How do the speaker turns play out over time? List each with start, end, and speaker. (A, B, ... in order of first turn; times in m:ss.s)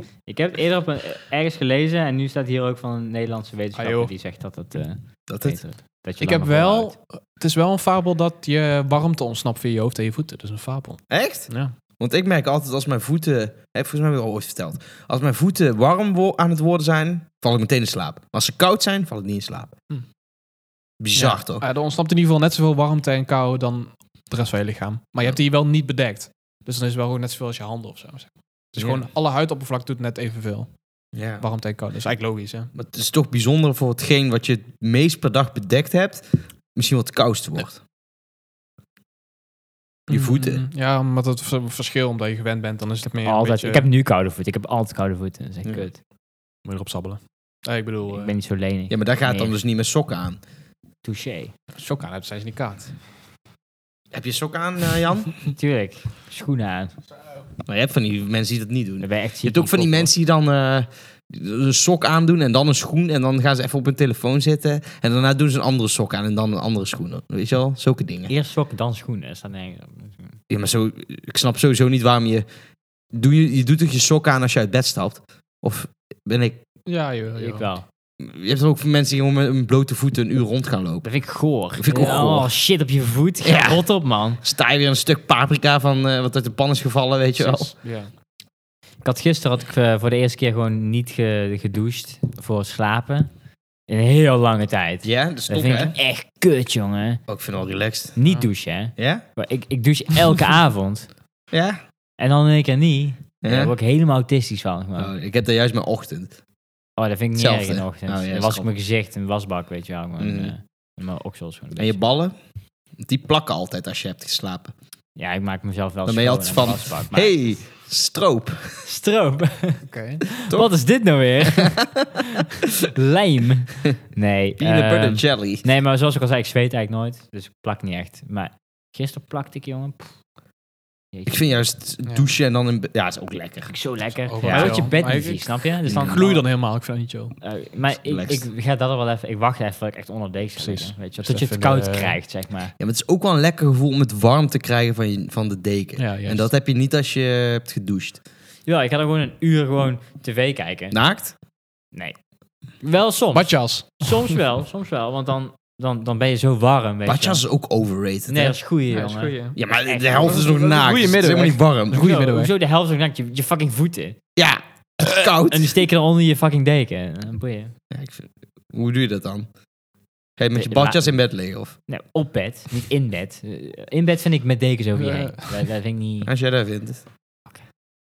0:00.3-0:07.0 A
0:03.8-0:04.1 B
0:05.3-0:05.6 C
0:06.2-0:11.7 B
0:11.1-0:19.8 C
0:21.0-0:21.6 C
0:21.2-0:30.7 B
0:28.8-0:29.0 C
0:31.1-0:31.4 C
0:31.4-0:32.7 B
0:32.8-0:37.8 C
0:40.1-0:43.9 B
0:40.1-0:40.6 C
0:43.2-0:46.0 A
0:46.6-0:48.4 B
0:48.1-0:49.5 A
0:48.9-0:50.4 C
0:51.0-0:51.5 A
0:51.8-0:52.9 B
0:54.1-0:55.4 C
0:55.5-0:56.9 A
0:57.7-1:08.3 C
0:59.0-1:00.1 A
1:08.3-1:10.3 A
1:10.5-1:12.4 C
1:13.1-1:16.6 C
1:16.9-1:17.7 B
1:17.4-1:17.9 A
1:18.2-1:21.1 C
1:21.0-1:24.4 A
1:21.8-1:22.5 C
1:23.4-1:23.9 C
1:24.4-1:27.7 C
1:27.4-1:28.1 B
1:29.0-1:33.3 A
1:33.9-1:37.2 A
1:35.0-1:35.9 C
1:37.3-1:38.2 C
1:38.2-1:41.1 A
1:39.0-1:39.2 C
1:41.5-1:41.8 C
1:42.2-1:45.1 A
1:43.4-1:43.7 C
1:45.0-1:46.4 C
1:47.0-1:52.0 A
1:47.4-1:48.7 C
1:50.2-1:50.5 C
1:51.8-1:52.4 C
1:53.0-1:54.7 C
1:55.2-1:57.4 A
1:56.0-1:58.8 C
1:58.8-1:59.9 A
1:59.9-2:00.2 B
2:00.4-2:10.1 A
2:04.6-2:05.6 C
2:11.1-2:11.6 A
2:11.3-2:13.7 C
2:12.0-2:12.3 B
2:13.7-2:16.5 A
2:14.3-2:17.3 B
2:14.4-2:14.9 C
2:15.9-2:16.2 C
2:17.4-2:22.7 A
2:18.0-2:18.4 C
2:20.6-2:22.2 B
2:22.8-2:28.2 C
2:26.0-2:26.5 B
2:28.7-2:31.0 A
2:30.9-2:31.3 C
2:32.8-2:37.4 A
2:33.3-2:34.2 B
2:37.1-2:38.6 C
2:38.3-2:40.4 A
2:38.9-2:39.6 B
2:39.6-2:42.0 C
2:40.1-2:42.5 B
2:42.0-2:44.2 A
2:44.4-2:45.7 C
2:45.1-2:47.8 A
2:47.9-2:49.5 C
2:50.4-2:51.8 C
2:50.6-2:51.3 A
2:51.9-2:56.3 A
2:55.0-2:55.5 B
2:56.2-2:57.0 C